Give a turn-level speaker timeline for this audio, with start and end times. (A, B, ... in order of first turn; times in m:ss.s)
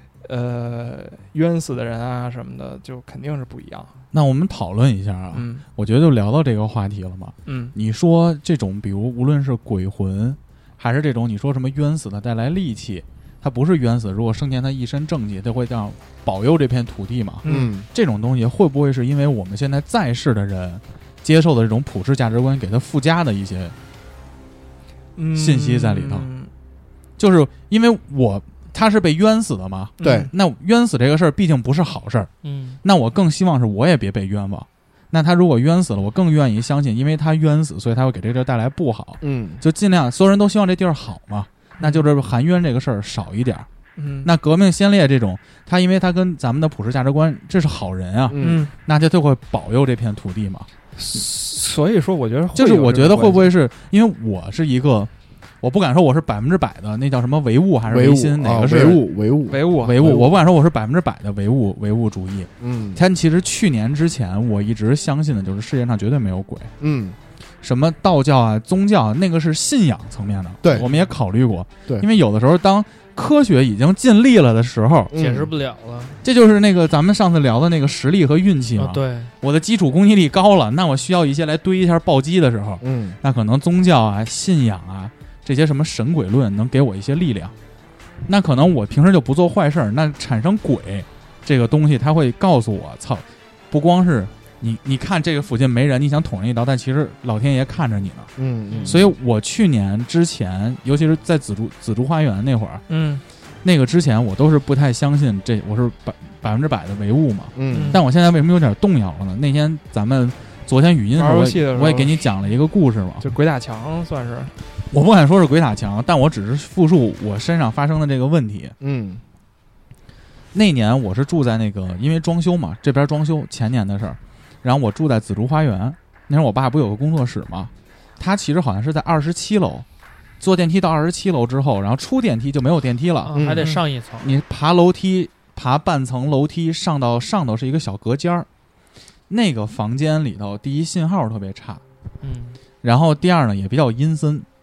0:00.2-0:03.9 A
0:04.1-0:23.8 B
0:05.3-0:05.6 A
0:07.5-0:07.7 A
0:17.4-0:17.7 A
0:17.5-0:17.9 C
0:25.2-0:26.5 A
0:25.4-0:26.3 B
0:27.2-0:32.3 B
0:30.0-0:30.3 A
0:30.0-0:30.3 C
0:32.4-0:32.8 D
0:32.8-0:43.7 B
0:39.2-0:39.6 C
0:41.8-0:42.1 A
0:44.0-0:44.3 A
0:44.2-0:50.7 B
0:48.3-0:48.7 C
0:48.4-0:48.7 A
0:51.0-0:53.5 A
0:52.6-0:55.1 B
0:55.6-0:59.0 B
0:57.9-1:00.3 C
0:59.5-1:00.3 A
0:59.8-1:06.7 B
1:02.6-1:03.0 C
1:06.8-1:07.2 C
1:07.6-1:15.1 B
1:10.6-1:10.9 C
1:10.7-1:11.0 D
1:15.1-1:15.5 C
1:15.1-1:16.2 D
1:16.2-1:27.5 B
1:18.8-1:19.3 D
1:22.8-1:23.2 C
1:28.3-1:38.3 B
1:38.4-1:39.0 C
1:38.7-1:39.0 D
1:38.9-1:42.8 B
1:42.9-1:43.2 A
1:43.6-1:53.2 B
1:47.6-1:48.0 C
1:47.7-1:48.0 A
1:51.2-1:52.2 A
1:53.2-1:54.5 A
1:54.9-1:58.7 B
1:58.8-1:59.2 C
2:00.5-2:09.9 B
2:10.4-2:13.6 B
2:13.2-2:14.3 D
2:13.3-2:13.7 C
2:14.2-2:18.5 B
2:19.3-2:21.8 B
2:22.2-2:22.6 D
2:22.8-2:24.5 B